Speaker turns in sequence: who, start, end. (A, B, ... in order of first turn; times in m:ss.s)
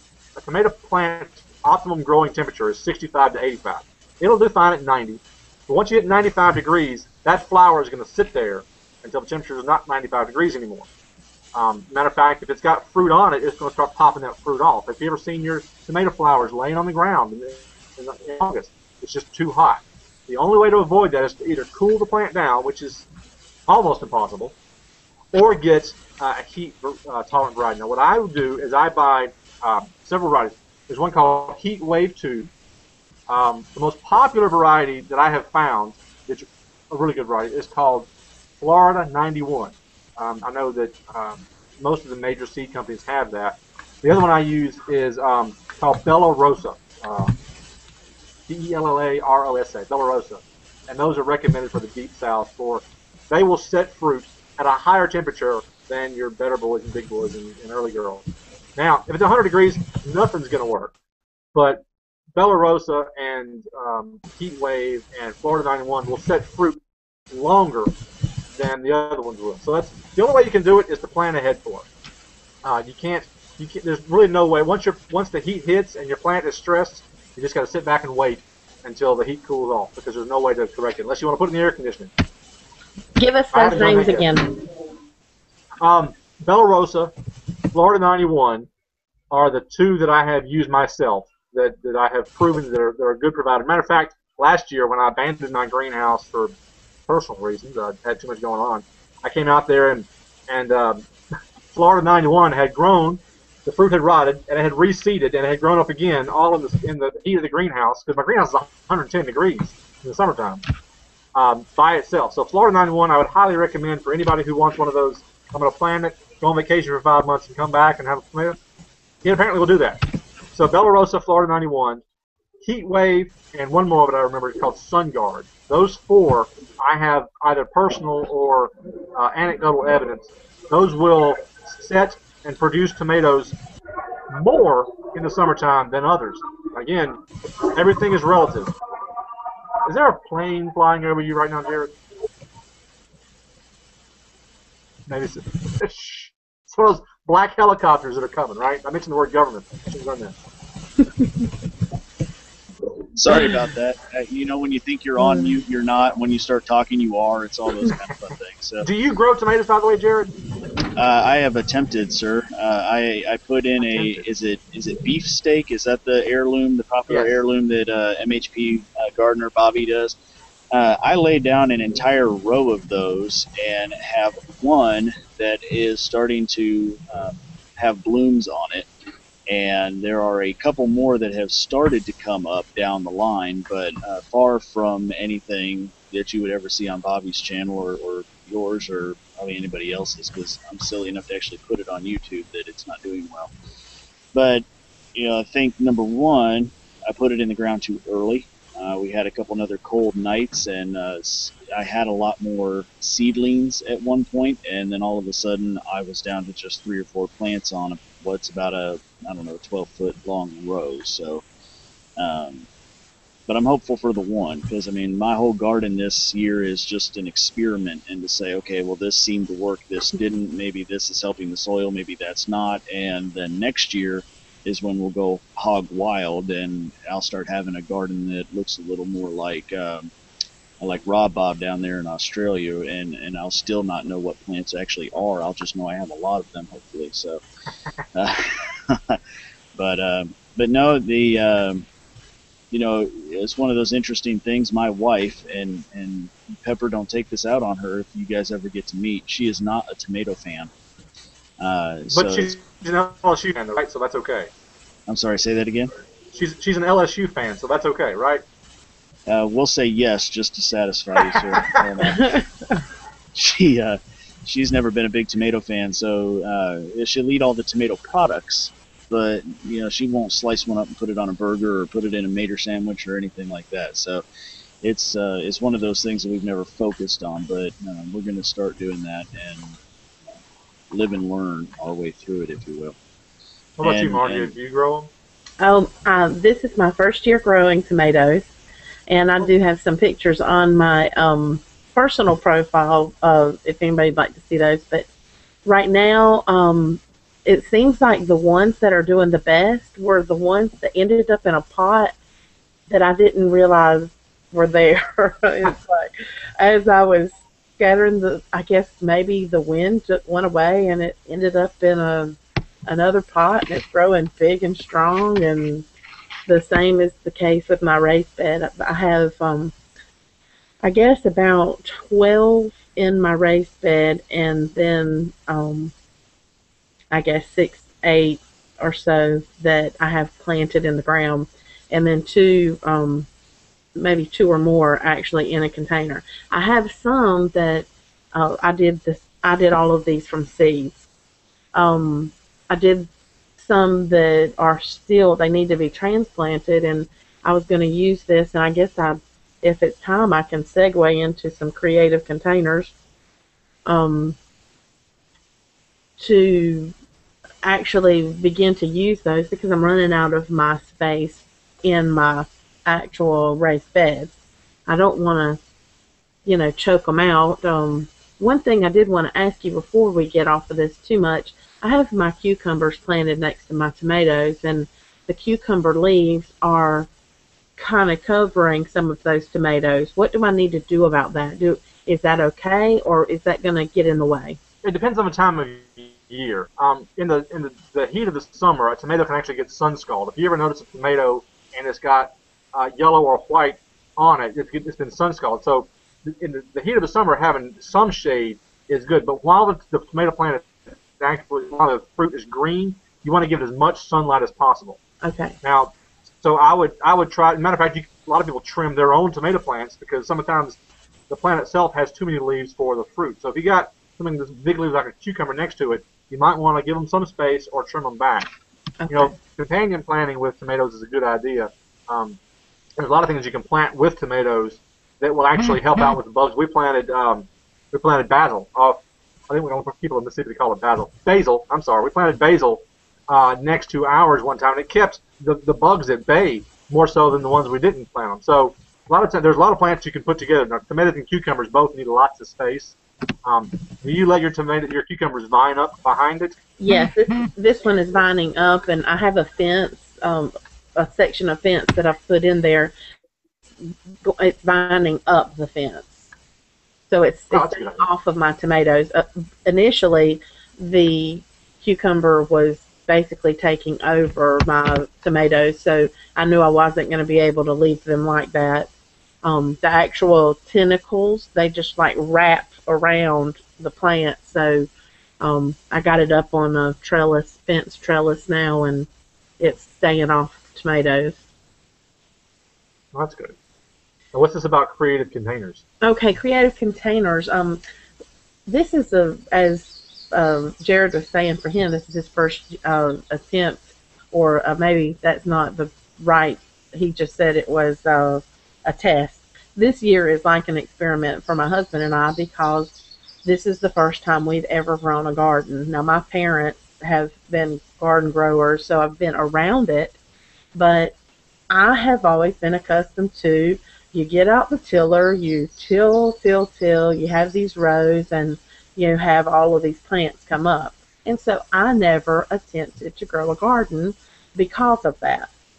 0:00.4-0:10.9 A
0:11.5-0:23.0 A
0:23.7-0:24.5 A
0:25.3-0:32.5 A
0:33.3-0:38.1 A
0:38.6-0:47.3 A
0:48.5-1:00.9 A
1:01.5-1:01.8 A
1:02.3-1:06.8 A
1:07.3-1:07.9 A
1:08.6-1:11.8 A
1:12.6-1:22.1 A
1:23.2-1:24.6 B
1:23.5-1:24.3 A
1:25.8-1:27.1 A
1:27.7-1:28.7 A
1:29.3-1:36.5 A
1:37.1-1:41.0 A
1:41.7-1:50.6 A
1:51.3-1:58.6 A
1:59.2-2:00.0 A
2:00.5-2:02.0 A
2:02.6-2:13.6 A
2:14.3-2:18.7 A
2:19.8-2:21.9 A
2:25.1-2:30.3 A
2:33.1-2:38.9 C
2:38.8-2:40.3 A
2:41.0-2:50.2 C
2:43.8-2:44.2 A
2:47.1-2:47.4 A
2:50.7-2:58.9 C
2:59.5-3:13.5 C
3:14.3-3:31.4 C
3:32.2-3:32.7 C
3:33.5-3:50.1 C
3:50.8-3:57.4 C
3:58.1-3:59.2 C
3:59.7-4:01.8 C
4:02.7-4:10.7 C
4:11.6-4:12.5 C
4:12.1-4:14.5 A
4:15.1-4:15.9 C
4:16.3-4:18.4 A
4:19.3-4:22.4 C
4:21.3-4:21.8 A
4:22.1-4:22.4 B
4:23.3-4:34.2 C
4:34.8-4:39.8 C
4:40.9-4:43.0 C
4:43.8-4:45.1 A
4:43.8-4:44.5 C
4:45.6-4:48.5 B
4:49.1-4:55.1 B
4:55.6-5:02.1 B
5:02.9-5:15.8 B
5:16.5-5:19.7 B
5:20.8-5:25.9 B
5:27.1-5:33.3 B
5:34.0-5:41.0 B
5:41.7-5:52.9 B
5:53.9-5:54.4 B
5:56.2-5:56.9 B
5:57.6-6:04.3 B
6:04.8-6:05.6 B
6:06.4-6:17.1 B
6:17.8-6:24.6 B
6:24.8-6:45.0 A
6:45.2-6:45.6 B
6:45.6-6:45.9 A
6:46.4-6:50.8 A
6:51.3-6:58.5 A
6:59.0-6:59.3 B
6:59.1-7:02.4 A
7:03.0-7:09.0 A
7:09.5-7:26.6 A
7:26.8-7:32.9 B
7:34.2-7:36.2 B
7:37.1-7:48.9 B
7:37.5-7:38.0 A
7:49.4-7:54.9 B
7:55.4-7:59.1 B
7:59.6-8:01.4 B
8:03.1-8:03.5 A
8:04.3-8:05.8 A
8:06.0-8:07.8 B
8:08.7-8:30.2 B
8:30.7-8:31.1 B
8:31.7-8:45.5 B